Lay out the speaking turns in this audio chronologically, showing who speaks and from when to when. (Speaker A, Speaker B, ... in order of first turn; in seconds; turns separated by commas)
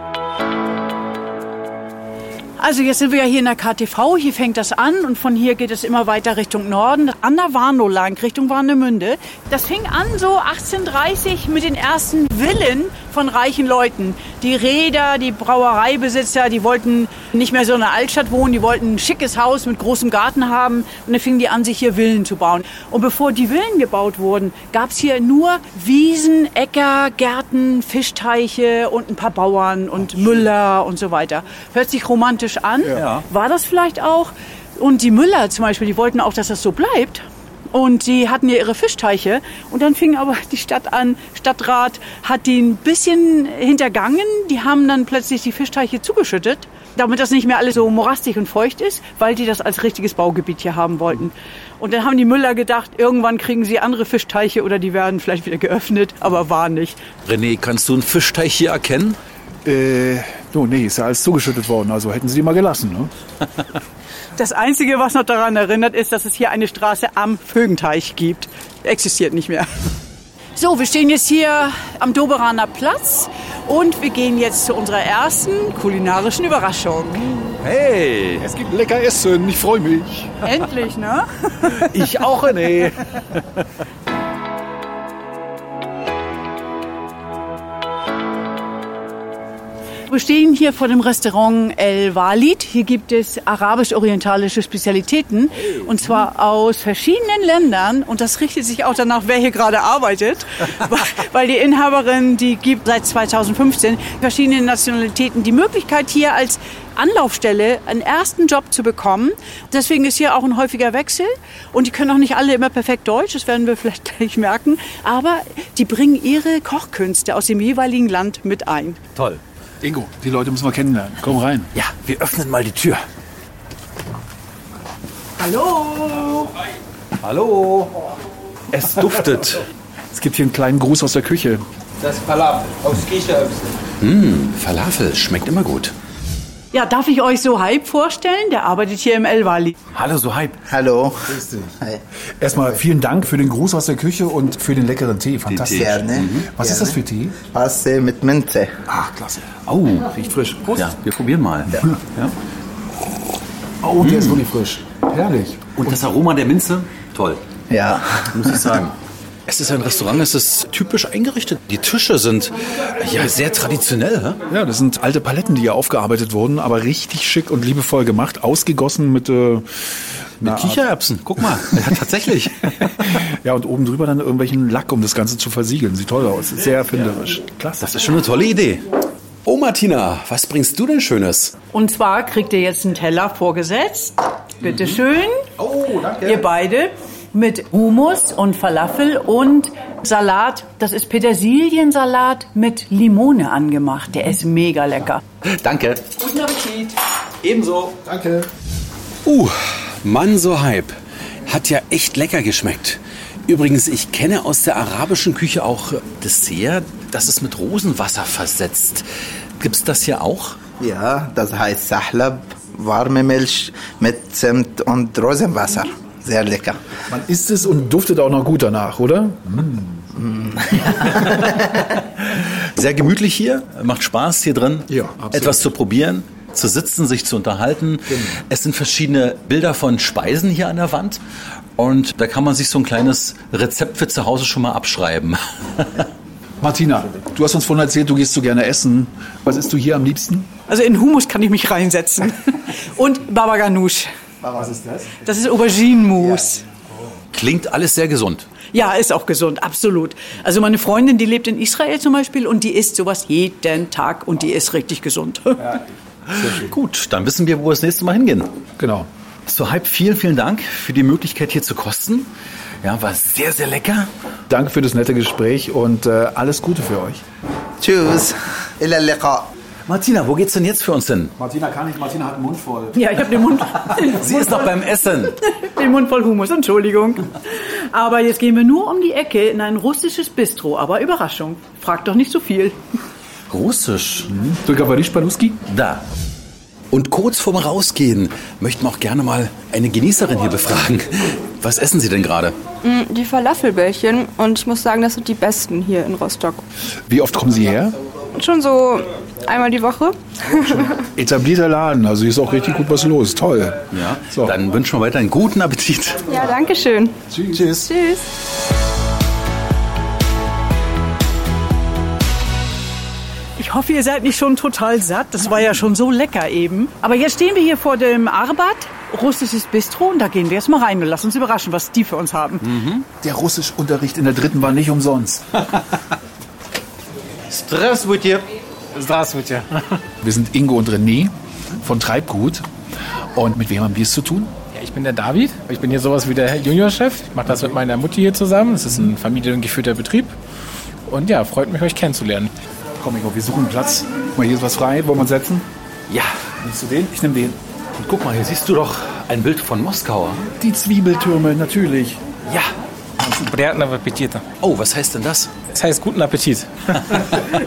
Speaker A: 2.6-57.0, Speaker B: 33.0-33.2, Speaker B: 57.2-59.2, Speaker C: 59.6-63.1, Speaker A: 64.3-69.8, Speaker A: 70.5-77.3, Speaker B: 77.6-78.4, Speaker C: 78.4-80.5, Speaker A: 80.4-81.7, Speaker B: 81.9-82.9, Speaker A: 90.1-119.0, Speaker B: 119.2-119.4, Speaker C: 119.8-121.7, Speaker B: 121.7-123.0, Speaker A: 125.4-126.5, Speaker B: 127.2-127.9, Speaker B: 128.7-129.6, Speaker C: 130.1-131.6, Speaker B: 134.0-135.9, Speaker A: 136.7-139.7, Speaker B: 139.9-140.6, Speaker D: 140.7-141.4, Speaker C: 141.3-141.7, Speaker C: 142.4-147.3, Speaker B: 145.5-146.5, Speaker D: 145.6-148.7, Speaker C: 148.9-150.9, Speaker B: 149.7-150.1, Speaker B: 150.7-152.3, Speaker C: 153.8-156.0, Speaker B: 154.0-154.4, Speaker B: 155.8-157.4, Speaker D: 157.7-158.6, Speaker B: 158.2-158.9, Speaker B: 159.5-164.4, Speaker C: 164.5-170.8, Speaker B: 170.4-173.2, Speaker C: 173.1-177.9, Speaker B: 177.8-178.8, Speaker B: 179.4-181.5, Speaker A: 181.7-185.5, Speaker B: 184.6-185.0, Speaker B: 185.6-186.5, Speaker A: 186.2-195.2, Speaker B: 195.4-196.1, Speaker A: 196.2-196.9, Speaker B: 197.5-197.9, Speaker C: 198.0-198.4, Speaker B: 199.2-200.9, Speaker B: 201.4-209.0, Speaker B: 209.6-210.6, Speaker D: 210.8-216.8, Speaker C: 217.1-220.1, Speaker B: 222.3-231.2, Speaker C: 224.9-225.7, Speaker B: 231.8-236.1, Speaker C: 236.6-240.5, Speaker A: 240.7-244.1, Speaker C: 244.5-245.2, Speaker A: 245.2-246.6, Speaker B: 247.3-248.4, Speaker A: 248.7-255.8, Speaker B: 256.3-258.5, Speaker C: 258.8-259.1, Speaker B: 259.5-262.3, Speaker B: 262.8-264.1, Speaker C: 264.5-267.2, Speaker D: 267.8-269.4, Speaker B: 269.9-271.3, Speaker C: 271.4-273.1, Speaker A: 272.9-282.8, Speaker B: 273.9-275.4, Speaker B: 283.5-284.3, Speaker C: 284.3-285.6, Speaker B: 285.7-286.0, Speaker B: 286.9-292.5, Speaker E: 292.8-296.6, Speaker C: 297.1-297.9, Speaker E: 298.4-300.9, Speaker C: 300.5-304.5, Speaker B: 303.9-306.2, Speaker E: 306.3-307.2, Speaker C: 307.3-307.7, Speaker B: 307.5-307.9, Speaker E: 307.7-308.3, Speaker A: 313.6-322.7, Speaker B: 322.6-323.1, Speaker C: 323.2-325.4, Speaker B: 327.5-328.4, Speaker F: 328.9-330.0, Speaker C: 330.2-332.6, Speaker C: 333.3-334.5, Speaker F: 334.7-340.3, Speaker F: 341.1-342.5, Speaker C: 343.0-345.6, Speaker B: 346.1-346.4, Speaker C: 346.6-347.6, Speaker B: 348.0-350.5, Speaker C: 350.6-352.2, Speaker B: 352.5-352.7, Speaker F: 353.2-354.4, Speaker B: 354.6-355.5, Speaker F: 355.7-357.1